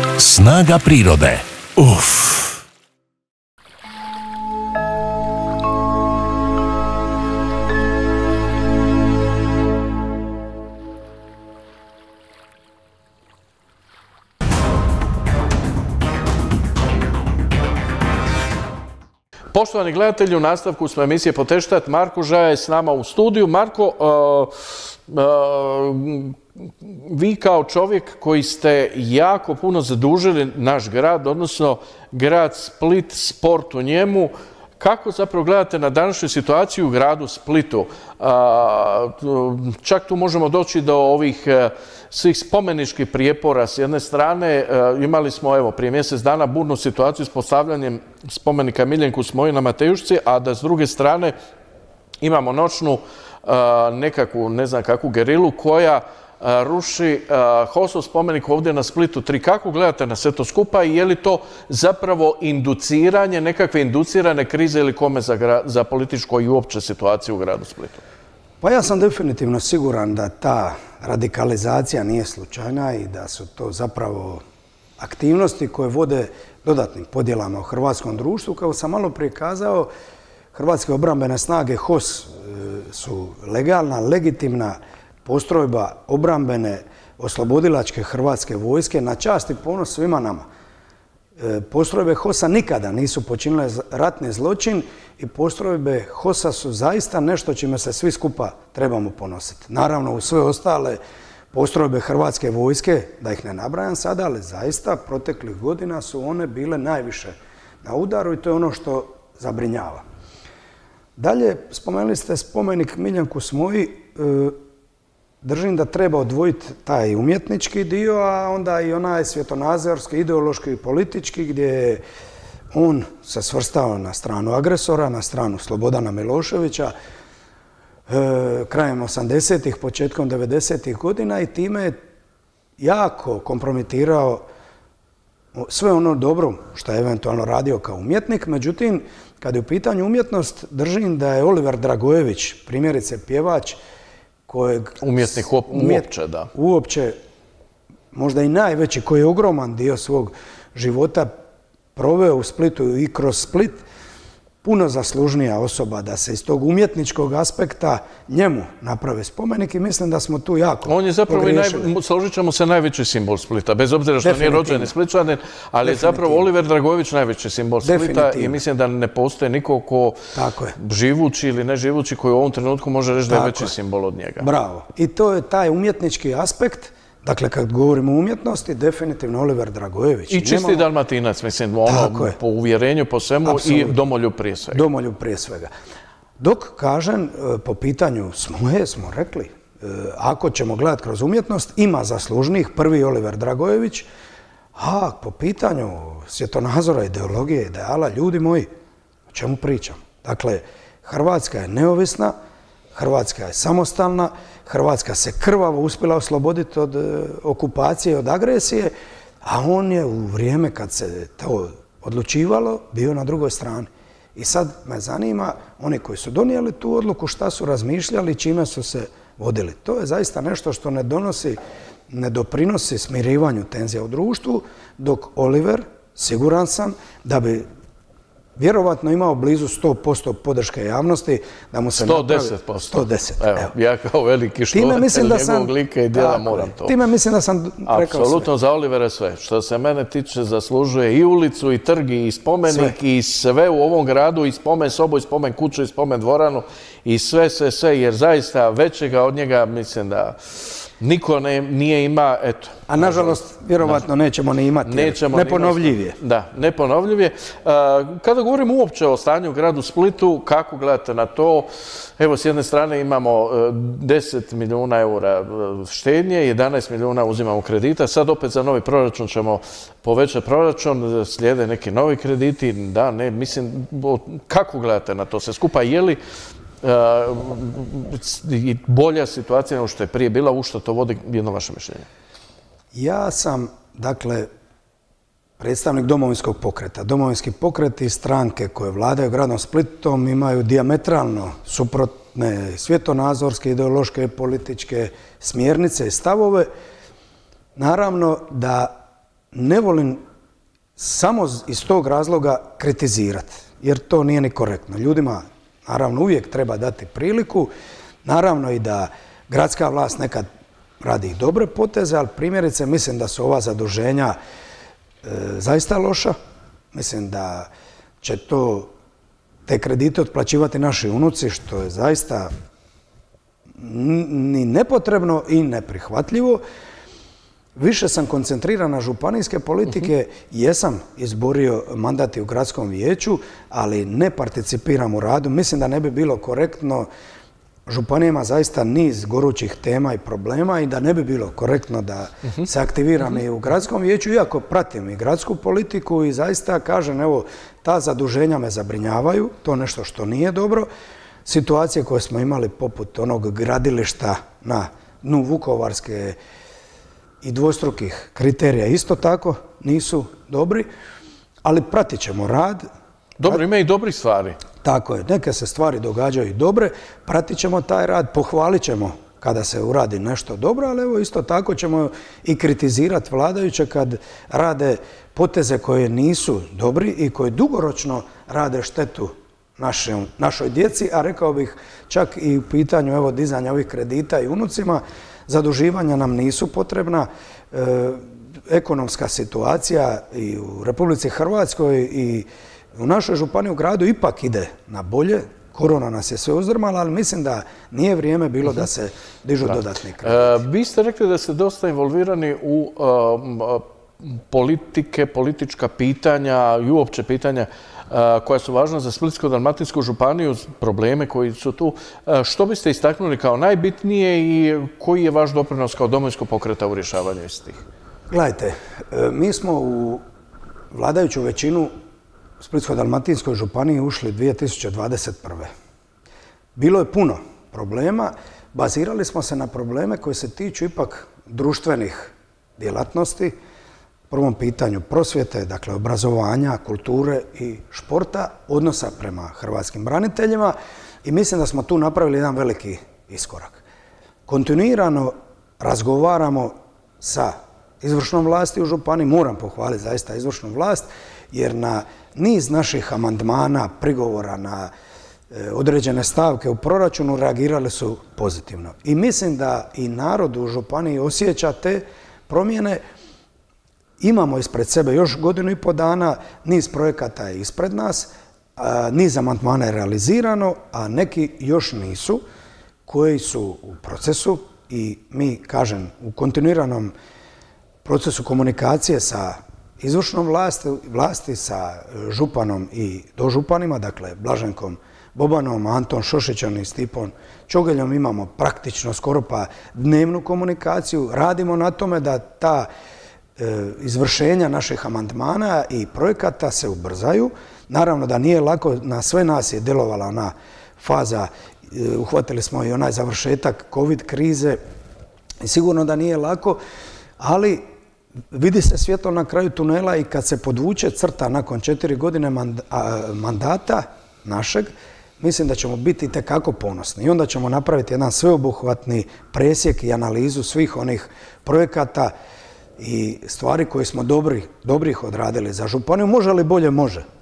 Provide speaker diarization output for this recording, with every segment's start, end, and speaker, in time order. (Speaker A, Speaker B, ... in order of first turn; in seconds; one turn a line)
Speaker A: 0.2-2.6
Speaker B: 19.5-51.3
Speaker B: 52.2-68.0
Speaker C: 68.6-74.4
Speaker C: 75.0-79.9
Speaker C: 80.5-90.5
Speaker C: 91.4-101.0
Speaker C: 101.5-110.0
Speaker C: 111.2-114.6
Speaker C: 115.4-122.0
Speaker C: 122.7-127.0
Speaker C: 128.1-132.0
Speaker C: 132.8-134.4
Speaker C: 135.6-143.8
Speaker C: 144.5-147.2
Speaker B: 145.0-146.5
Speaker C: 148.1-151.3
Speaker C: 151.9-153.8
Speaker C: 154.6-161.9
Speaker B: 160.9-174.5
Speaker C: 164.2-164.9
Speaker C: 165.8-166.5
Speaker C: 167.8-168.6
Speaker C: 170.3-170.8
Speaker C: 173.3-173.7
Speaker C: 174.4-180.9
Speaker B: 180.3-184.8
Speaker C: 181.9-182.4
Speaker C: 183.4-184.0
Speaker C: 184.7-185.7
Speaker C: 186.4-194.1
Speaker C: 194.8-198.7
Speaker C: 199.3-202.3
Speaker C: 202.9-221.6
Speaker C: 222.1-227.7
Speaker C: 228.6-233.7
Speaker B: 232.0-236.9
Speaker C: 234.7-238.5
Speaker B: 237.8-254.0
Speaker C: 242.7-242.9
Speaker C: 252.9-256.2
Speaker B: 254.8-276.2
Speaker B: 276.8-282.1
Speaker C: 282.9-284.5
Speaker C: 285.6-296.7
Speaker C: 297.8-299.0
Speaker C: 299.5-300.2
Speaker C: 301.0-307.7
Speaker C: 308.2-310.5
Speaker C: 311.0-314.4
Speaker C: 315.2-316.4
Speaker C: 316.9-317.7
Speaker C: 318.2-318.9
Speaker C: 319.7-322.5
Speaker C: 323.8-326.6
Speaker C: 327.8-337.1
Speaker C: 337.9-350.9
Speaker C: 351.4-356.4
Speaker C: 357.4-360.9
Speaker C: 361.6-362.9
Speaker B: 363.4-364.6
Speaker C: 364.8-400.6
Speaker B: 399.7-417.9
Speaker C: 418.3-420.2
Speaker C: 420.9-421.9
Speaker C: 422.6-425.7
Speaker C: 426.8-433.6
Speaker C: 434.3-443.8
Speaker C: 444.5-454.9
Speaker C: 455.5-463.0
Speaker C: 464.2-472.4
Speaker C: 473.1-477.1
Speaker C: 478.0-492.9
Speaker C: 493.6-504.8
Speaker C: 505.6-506.8
Speaker C: 507.4-507.9
Speaker C: 508.5-514.9
Speaker C: 515.4-522.3
Speaker C: 523.0-527.3